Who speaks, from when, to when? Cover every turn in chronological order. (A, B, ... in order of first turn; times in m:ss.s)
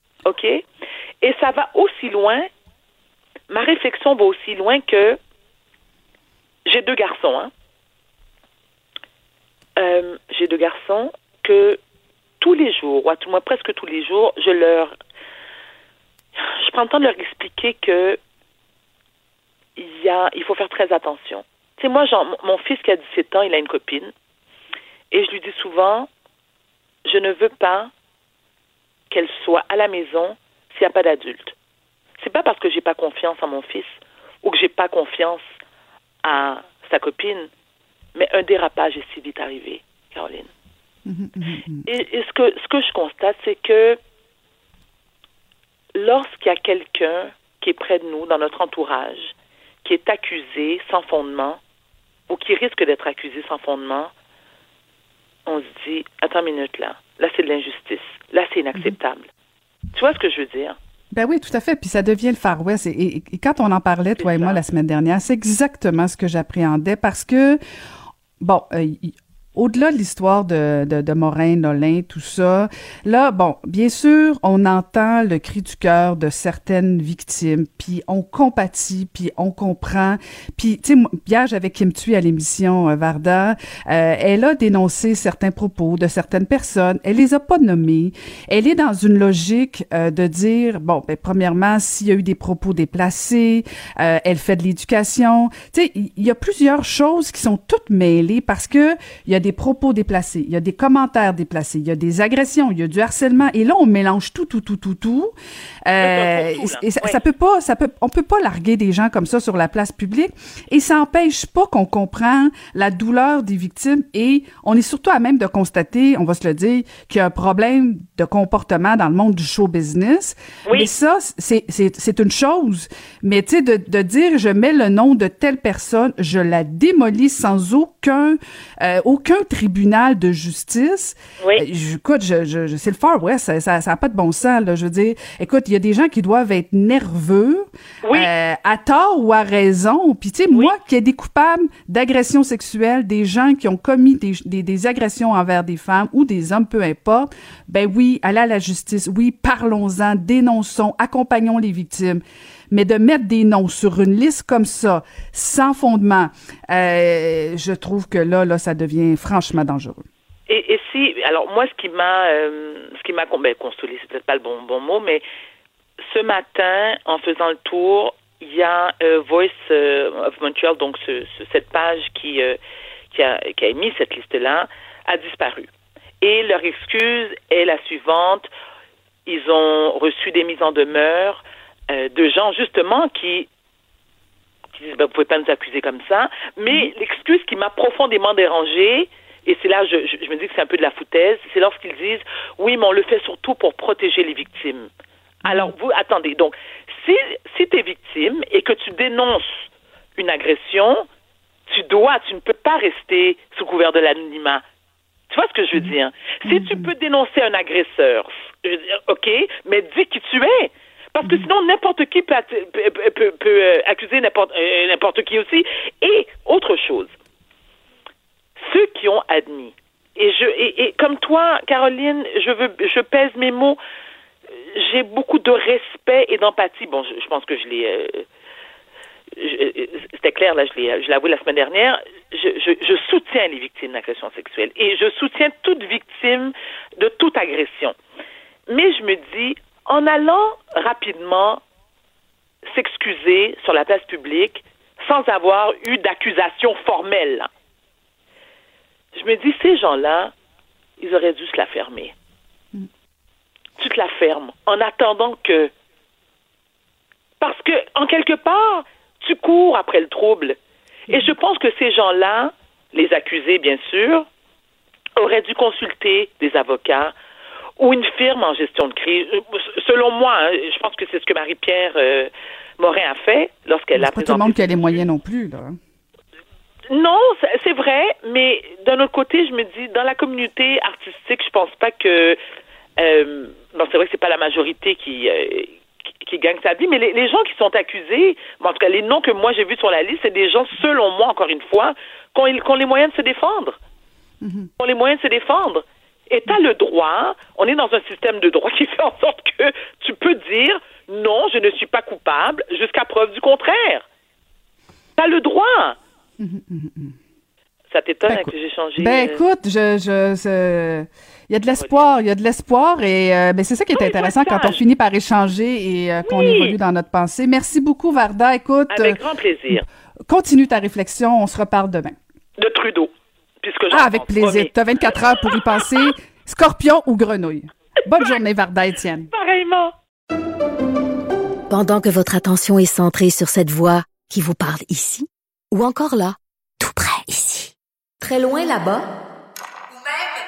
0:00.2-0:00.6 A
0:01.2-0:02.5 A
0:03.5-0:05.2 A
0:06.7-0:07.5 A
0:09.8-0:11.8 A
0:12.4-0:14.9 A
0:16.4-0:18.2 A
0:19.8-0:24.1 A
0:25.1-0:26.1 A
0:27.0-0:27.9 A
0:29.1-0:31.5 A
0:32.2-0:35.4 A
0:36.2-0:37.5 A
0:38.2-0:40.5 A
0:41.1-0:41.9 B
0:41.9-0:44.0 A
0:46.0-0:51.6 A
0:52.3-0:54.1 A
0:55.5-0:59.3 A
0:59.9-1:00.8 A
1:01.1-1:07.6 B
1:04.2-1:04.6 A
1:08.4-1:45.3 B
1:45.9-2:40.0 B
1:46.0-1:47.2 A
2:18.0-2:18.3 A
2:40.5-2:45.2 A
2:46.0-2:52.6 A
2:53.1-2:55.7 A
2:56.2-2:58.5 A
2:59.3-3:03.5 A
3:04.8-3:14.9 A
3:15.4-3:19.6 A
3:20.2-3:21.0 A
3:21.7-3:24.6 A
3:25.3-3:37.1 A
3:26.5-3:26.9 B
3:38.6-3:43.8 A
3:44.7-3:48.3 A
3:49.4-3:58.0 A
3:58.7-4:01.6 A
4:02.7-4:07.5 A
4:09.1-4:10.3 A
4:11.0-4:12.1 A
4:13.8-4:15.7 A
4:17.4-4:20.6 A
4:21.1-4:24.3 A
4:25.2-4:27.1 A
4:27.8-4:34.7 A
4:34.0-4:35.8 B
4:36.9-4:42.4 A
4:43.0-4:53.8 A
4:54.4-4:54.7 B
4:54.8-5:04.0 A
5:05.2-5:06.0 A
5:06.4-5:07.2 B
5:07.9-5:09.4 A
5:08.3-5:19.2 B
5:11.8-5:12.0 A
5:13.9-5:14.8 A
5:16.3-5:16.8 A
5:18.9-5:19.8 A
5:20.3-5:22.2 B
5:22.6-5:23.1 A
5:23.6-5:24.7 A
5:23.9-5:29.3 B
5:29.3-5:29.9 A
5:31.7-5:39.1 C